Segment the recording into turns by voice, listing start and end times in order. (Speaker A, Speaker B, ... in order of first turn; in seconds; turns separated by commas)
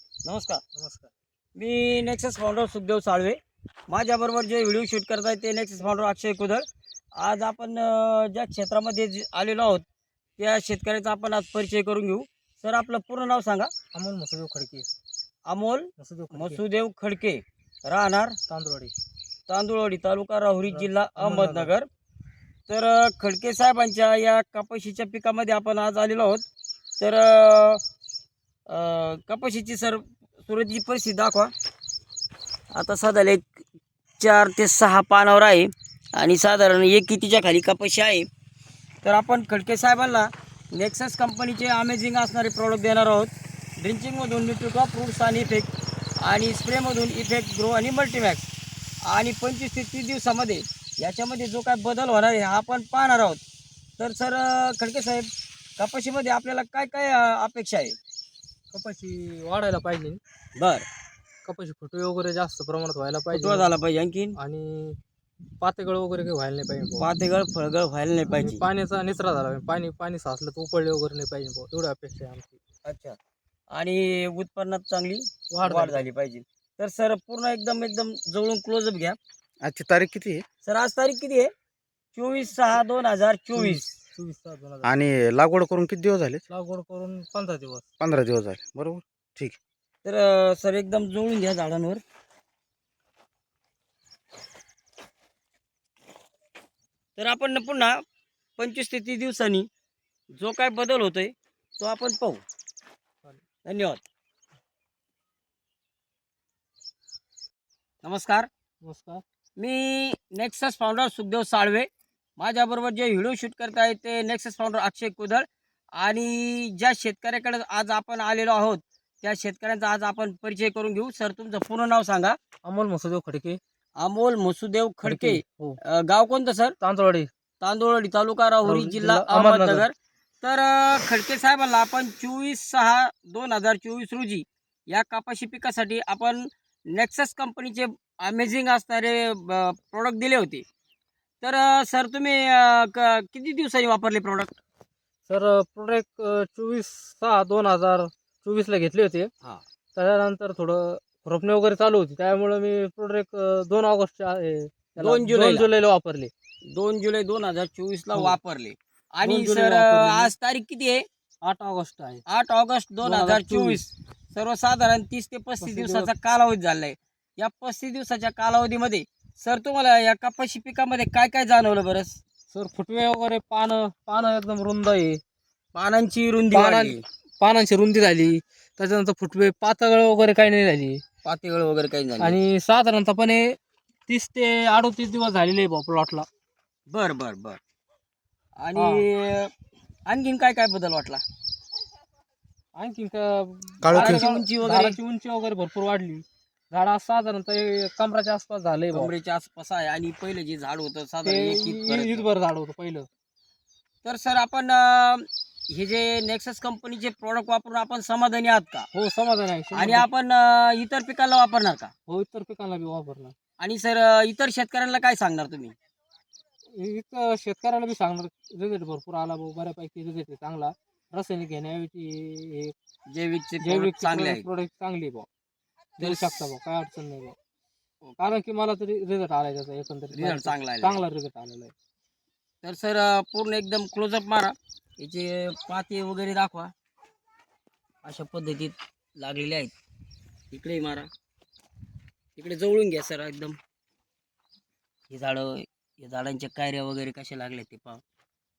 Speaker A: 0.2-0.6, Speaker B: 0.7-1.1, Speaker A: 1.6-6.7, Speaker A: 7.2-9.8, Speaker A: 10.4-13.7, Speaker B: 13.9-14.9, Speaker A: 15.5-18.4, Speaker B: 16.0-16.6, Speaker B: 18.5-18.9, Speaker A: 19.5-21.9, Speaker B: 20.7-21.7, Speaker A: 22.7-26.4, Speaker A: 27.0-27.8, Speaker A: 28.7-31.5, Speaker A: 32.8-33.6, Speaker A: 34.2-38.3, Speaker A: 39.0-45.7, Speaker A: 46.2-48.5, Speaker A: 49.0-53.4, Speaker A: 54.0-55.3, Speaker A: 55.8-58.0, Speaker B: 58.7-60.2, Speaker A: 60.6-60.9, Speaker B: 61.5-63.7, Speaker A: 63.3-64.4, Speaker B: 64.4-65.0, Speaker B: 65.6-67.1, Speaker A: 67.0-68.6, Speaker B: 68.3-72.6, Speaker A: 72.8-73.2, Speaker A: 73.8-79.2, Speaker B: 75.5-76.1, Speaker C: 79.6-80.4, Speaker A: 80.6-81.5, Speaker A: 82.1-83.9, Speaker B: 83.6-85.0, Speaker C: 84.8-86.4, Speaker B: 86.5-87.9, Speaker C: 88.0-89.6, Speaker A: 90.0-92.0, Speaker A: 97.2-98.0, Speaker A: 98.6-99.7, Speaker A: 100.4-102.4, Speaker A: 103.7-104.0, Speaker A: 108.0-108.5, Speaker B: 108.8-109.2, Speaker A: 109.6-111.9, Speaker A: 112.4-115.5, Speaker A: 116.0-122.4, Speaker B: 122.7-123.6, Speaker A: 124.0-126.8, Speaker B: 125.0-125.8, Speaker B: 126.8-127.3, Speaker A: 127.6-140.6, Speaker B: 128.6-129.9, Speaker A: 141.4-144.6, Speaker B: 145.3-149.3, Speaker B: 150.0-156.3, Speaker A: 155.0-155.7, Speaker A: 156.7-161.1, Speaker B: 159.2-160.3, Speaker B: 161.4-162.2, Speaker A: 162.3-172.2, Speaker B: 163.0-163.8, Speaker B: 165.6-166.1, Speaker B: 172.5-175.2, Speaker A: 175.8-177.0, Speaker B: 176.5-181.0, Speaker A: 181.2-182.4, Speaker B: 182.2-183.6, Speaker B: 184.1-186.3, Speaker A: 186.9-187.6, Speaker A: 188.6-189.5, Speaker B: 188.8-189.0, Speaker A: 190.1-191.2, Speaker B: 192.8-199.1, Speaker C: 193.8-194.3, Speaker A: 193.9-195.0, Speaker A: 198.9-202.3, Speaker B: 201.2-203.1, Speaker A: 204.0-208.9, Speaker B: 208.9-210.1, Speaker A: 209.7-211.9, Speaker B: 212.1-213.3, Speaker A: 213.6-215.8, Speaker B: 216.8-222.7, Speaker A: 223.1-224.4, Speaker B: 223.6-225.3, Speaker B: 226.0-227.4, Speaker A: 226.0-226.4, Speaker A: 228.0-228.4, Speaker B: 228.2-231.7, Speaker A: 230.1-231.0, Speaker A: 232.6-236.7, Speaker A: 238.0-239.7, Speaker A: 240.5-241.1, Speaker A: 242.4-243.6, Speaker A: 245.1-248.0